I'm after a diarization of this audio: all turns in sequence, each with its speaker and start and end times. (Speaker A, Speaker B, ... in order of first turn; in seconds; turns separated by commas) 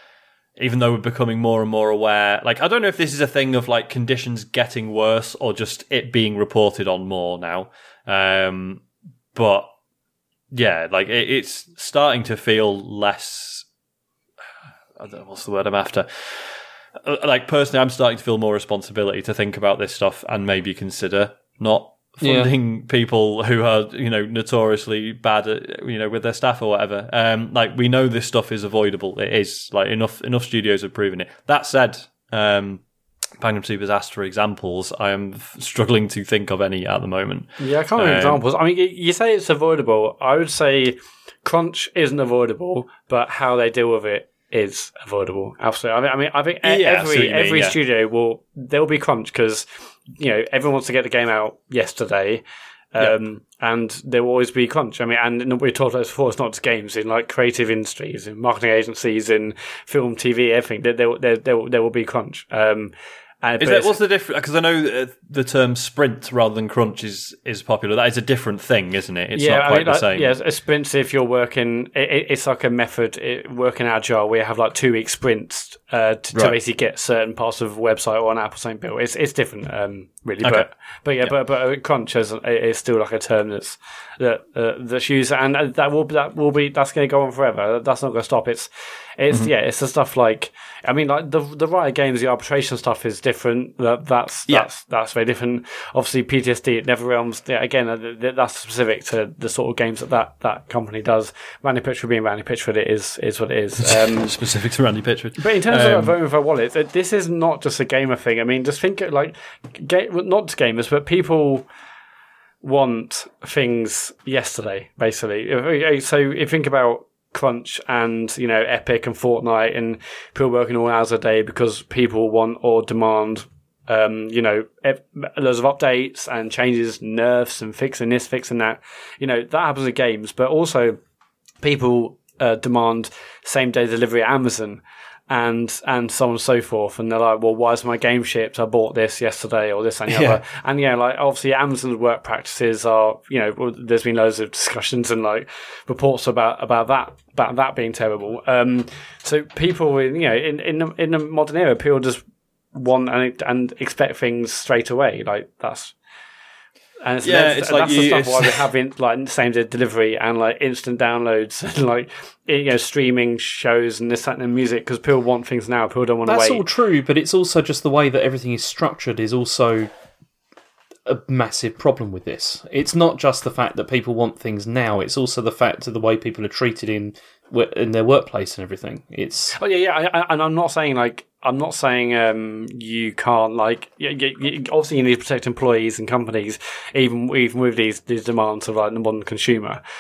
Speaker A: 0.6-9.7, Speaker A: 10.5-13.7, Speaker A: 15.0-32.8, Speaker B: 22.2-22.5, Speaker A: 33.4-38.4, Speaker C: 37.6-52.4, Speaker A: 46.6-47.8, Speaker C: 52.9-64.0, Speaker A: 63.6-70.3, Speaker C: 69.3-104.4, Speaker A: 103.8-106.2, Speaker C: 105.4-111.7, Speaker C: 112.6-131.0, Speaker C: 131.6-152.2, Speaker A: 140.1-140.4, Speaker C: 152.7-155.9, Speaker C: 157.0-166.6, Speaker A: 157.2-158.7, Speaker B: 166.2-169.9, Speaker B: 171.1-179.6, Speaker C: 179.6-189.8